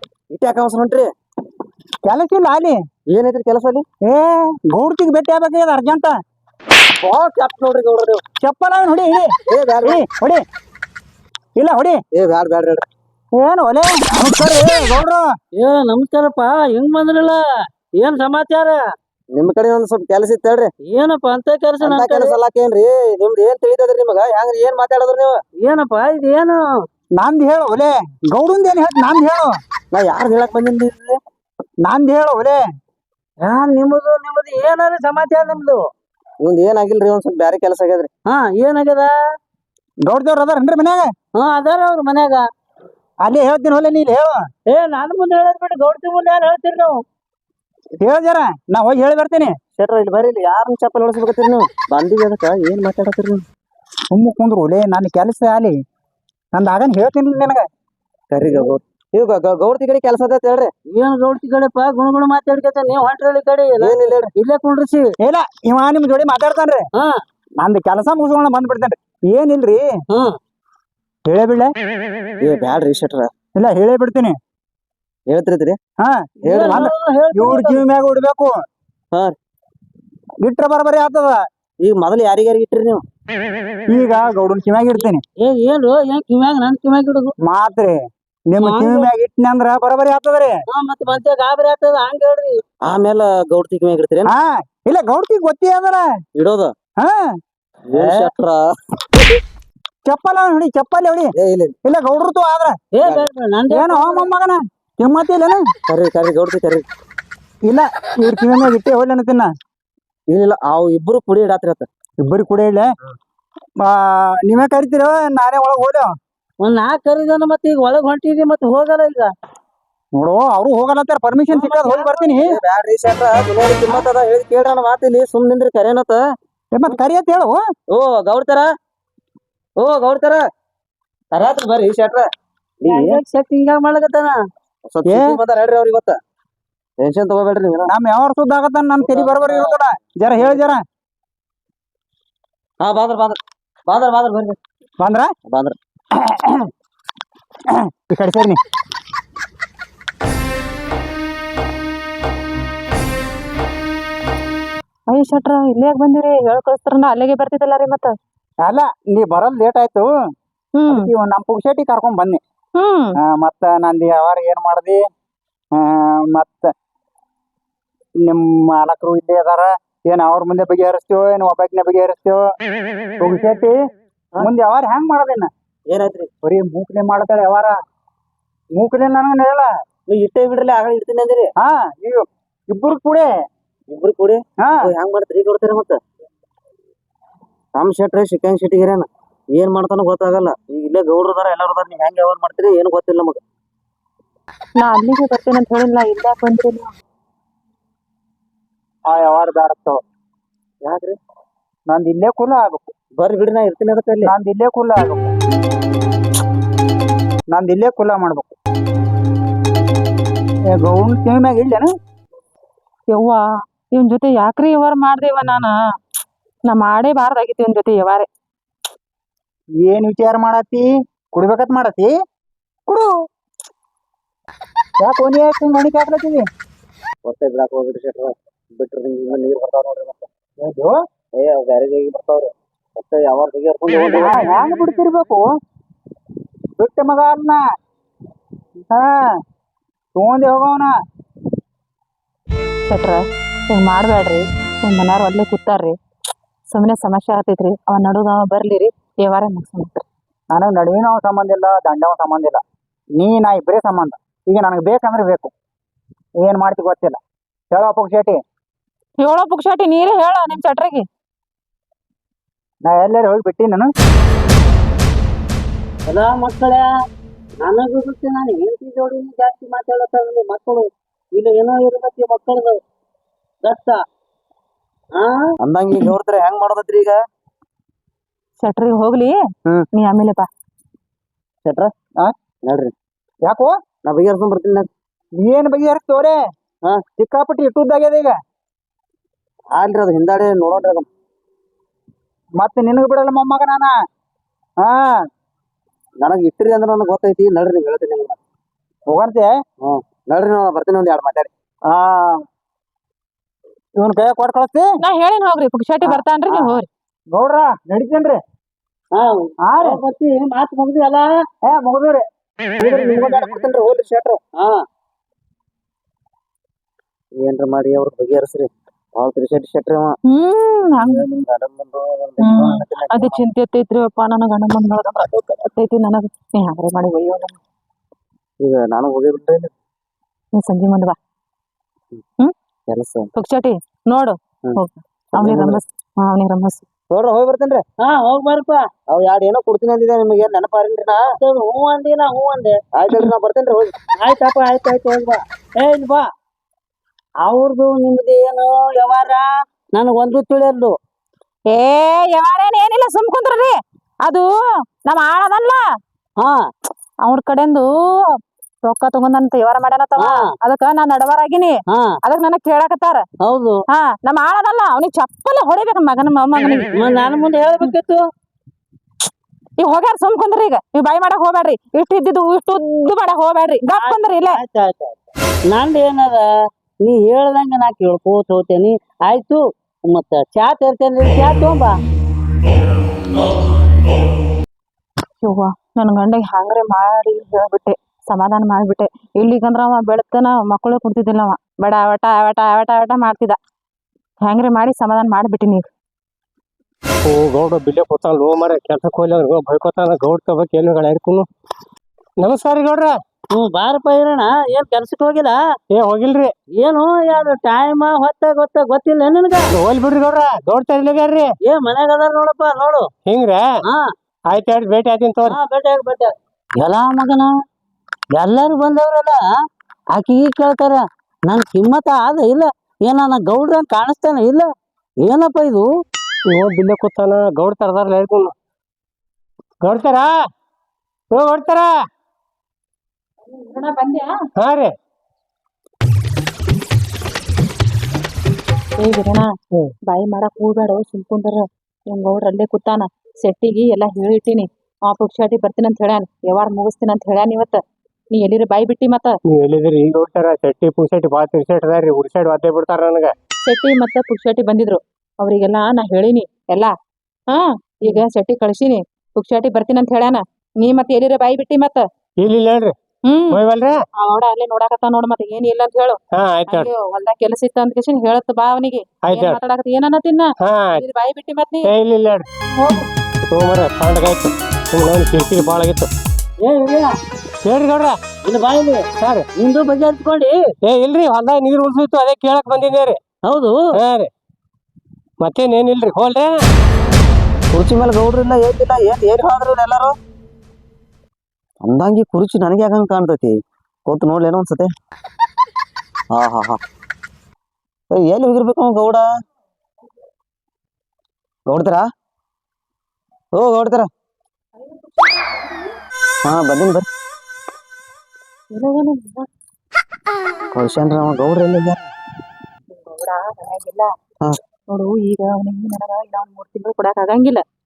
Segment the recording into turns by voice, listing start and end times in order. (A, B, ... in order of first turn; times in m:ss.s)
0:00.3-0:01.1 A
0:02.1-0:02.8 B
0:03.1-0:03.8 A
0:04.0-0:06.2 B
0:07.0-0:08.2 A
0:08.4-0:09.3 B
0:09.5-0:10.0 A
0:09.8-0:10.4 B
0:11.6-0:12.0 B
0:12.1-0:12.8 A
0:13.4-0:15.3 B
0:15.6-0:17.4 C
0:18.0-0:18.8 C
0:19.3-0:20.7 A
0:20.9-0:22.4 C
0:21.8-0:25.4 A
0:25.6-0:26.6 C
0:27.2-0:29.5 B
0:29.9-0:31.2 A
0:31.8-0:32.6 B
0:33.4-0:35.8 C
0:36.4-0:38.1 A
0:38.3-0:39.1 C
0:40.0-0:41.1 B
0:41.4-0:42.4 C
0:43.2-0:44.4 B
0:44.7-0:47.0 C
0:48.0-0:49.6 B
0:49.8-0:53.4 A
0:54.1-0:55.8 B
0:56.5-0:57.7 B
0:58.3-1:00.7 A
1:00.9-1:05.1 C
1:03.8-1:04.3 A
1:05.2-1:06.9 B
1:07.6-1:09.9 B
1:10.1-1:10.4 C
1:11.2-1:11.7 B
1:12.4-1:13.3 A
1:13.6-1:14.4 B
1:15.3-1:15.8 A
1:16.0-1:18.5 B
1:16.4-1:17.8 C
1:16.5-1:16.7 A
1:20.4-1:21.4 B
1:21.8-1:23.0 A
1:23.9-1:25.2 B
1:25.4-1:27.3 C
1:27.4-1:30.6 B
1:28.6-1:29.1 C
1:30.7-1:32.6 C
1:32.8-1:34.3 A
1:34.2-1:36.0 B
1:36.4-1:36.7 A
1:37.0-1:37.3 B
1:37.9-1:38.7 A
1:40.1-1:41.3 B
1:41.4-1:41.8 A
1:41.8-1:42.8 B
1:42.9-1:44.3 C
1:43.7-1:45.6 B
1:45.9-1:46.8 A
1:47.7-1:49.5 B
1:50.3-1:51.9 A
1:52.2-1:52.9 B
1:53.8-1:56.1 B
1:56.6-1:59.3 C
2:00.2-2:02.5 B
2:01.5-2:02.4 C
2:02.4-2:06.2 A
2:06.7-2:07.6 B
2:07.9-2:08.7 A
2:09.8-2:10.4 A
2:11.3-2:12.3 A
2:12.8-2:13.2 A
2:12.8-2:14.4 C
2:14.9-2:16.2 A
2:15.1-2:15.4 B
2:17.0-2:17.9 A
2:17.9-2:20.8 B
2:19.0-2:19.7 A
2:20.4-2:20.6 A
2:22.8-2:24.6 A
2:25.0-2:25.3 B
2:25.5-2:25.8 A
2:26.2-2:26.7 B
2:27.7-2:28.6 B
2:35.1-2:38.1 D
2:38.6-2:40.1 B
2:40.8-2:41.1 D
2:40.9-2:42.4 B
2:42.8-2:43.2 D
2:43.2-2:45.0 B
2:45.8-2:46.7 B
2:48.2-2:52.5 B
2:53.2-2:53.8 B
2:54.4-2:55.5 B
2:55.9-2:56.3 A
2:56.4-2:57.8 B
2:58.8-2:59.7 B
3:00.1-3:01.5 A
3:01.6-3:03.3 B
3:03.9-3:06.0 A
3:04.6-3:04.9 B
3:07.8-3:13.4 A
3:14.8-3:16.9 D
3:19.1-3:20.0 B
3:20.8-3:21.2 A
3:21.9-3:22.9 B
3:23.2-3:24.3 A
3:24.2-3:25.3 B
3:27.5-3:28.5 B
3:30.8-3:31.9 B
3:33.1-3:35.8 D
3:36.7-3:38.3 D
3:39.8-3:42.1 B
3:42.9-3:43.1 B
3:45.0-3:46.4 B
3:47.2-3:50.3 A
3:50.6-3:51.0 B
3:51.4-3:54.5 A
3:54.1-3:55.4 B
3:56.8-3:57.6 B
3:58.8-3:59.3 B
4:00.2-4:00.9 B
4:02.9-4:06.0 D
4:06.7-4:10.0 D
4:10.5-4:12.6 B
4:13.2-4:15.5 B
4:16.4-4:17.2 B
4:17.7-4:18.4 B
4:19.2-4:21.1 D
4:22.8-4:23.9 B
4:26.1-4:26.9 C
4:27.6-4:32.8 C
4:33.6-4:34.0 C
4:35.2-4:35.5 C
4:35.6-4:37.2 A
4:38.6-4:39.4 D
4:39.9-4:40.5 D
4:42.6-4:42.9 A
4:43.4-4:43.8 B
4:44.0-4:44.9 A
4:45.4-4:46.4 B
4:47.2-4:48.4 B
4:49.7-4:51.1 A
4:52.6-4:53.9 B
4:54.8-4:55.2 B
4:56.2-4:58.4 A
4:59.1-4:59.5 B
4:59.8-5:01.5 A
5:01.9-5:02.4 B
5:04.0-5:04.9 B
5:05.0-5:06.9 D
5:06.0-5:06.7 B
5:07.3-5:08.4 B
5:09.1-5:11.3 C
5:09.7-5:10.0 B
5:11.7-5:12.2 B
5:12.8-5:13.3 B
5:13.1-5:14.4 A
5:17.4-5:20.2 A
5:20.3-5:21.3 D
5:21.0-5:23.4 A
5:22.4-5:27.6 D
5:28.6-5:29.7 A
5:30.5-5:31.2 D
5:32.9-5:33.3 A
5:33.4-5:36.8 D
5:35.4-5:35.8 A
5:37.1-5:37.8 A
5:38.0-5:38.9 C
5:39.1-5:41.2 A
5:41.4-5:42.8 C
5:42.9-5:43.9 A
5:44.2-5:46.2 C
5:47.4-5:50.9 C
5:51.7-5:54.5 D
5:55.0-5:55.8 D
5:57.2-5:58.0 D
5:58.8-6:03.2 D
6:03.4-6:03.8 C
6:03.9-6:07.0 D
6:07.0-6:08.2 C
6:09.8-6:14.6 D
6:13.9-6:15.2 C
6:15.7-6:16.5 C
6:17.0-6:22.0 C
6:25.4-6:33.6 D
6:34.4-6:35.9 D
6:37.3-6:41.5 E
6:42.4-6:43.2 E
6:43.5-6:45.6 C
6:45.9-6:46.5 E
6:46.8-6:49.7 C
6:49.7-6:51.5 E
6:51.6-6:53.1 C
6:53.3-6:53.7 E
6:54.5-6:55.6 E
6:55.5-6:57.5 C
6:58.4-6:59.4 C
7:00.1-7:04.7 C
7:05.2-7:05.9 C
7:06.5-7:08.5 E
7:09.8-7:10.3 E
7:11.3-7:11.9 E
7:13.5-7:14.3 D
7:14.6-7:14.9 E
7:19.0-7:19.5 D
7:20.1-7:27.8 D
7:28.3-7:29.4 D
7:29.5-7:33.3 E
7:33.6-7:36.9 D
7:37.5-7:42.1 D
7:42.4-7:42.9 E
7:43.3-7:43.6 D
7:43.5-7:44.0 E
7:44.2-7:51.9 D
7:46.4-7:46.9 E
7:49.3-7:49.6 E
7:50.6-7:51.0 E
7:51.8-7:52.5 E
7:52.7-7:53.1 D
7:53.5-7:56.1 E
7:56.6-7:57.1 C
7:57.6-7:58.2 E
7:58.4-8:00.6 C
7:59.2-7:59.5 E
8:00.8-8:03.2 E
8:03.4-8:03.8 C
8:03.9-8:04.3 E
8:05.4-8:06.6 E
8:07.7-8:10.2 A
8:11.8-8:14.9 A
8:16.3-8:16.8 A
8:18.1-8:19.2 A
8:21.7-8:22.1 A
8:23.5-8:24.1 A
8:24.8-8:25.9 D
8:26.4-8:27.1 A
8:28.7-8:29.5 D
8:30.7-8:32.1 A
8:32.9-8:34.1 D
8:34.9-8:37.6 D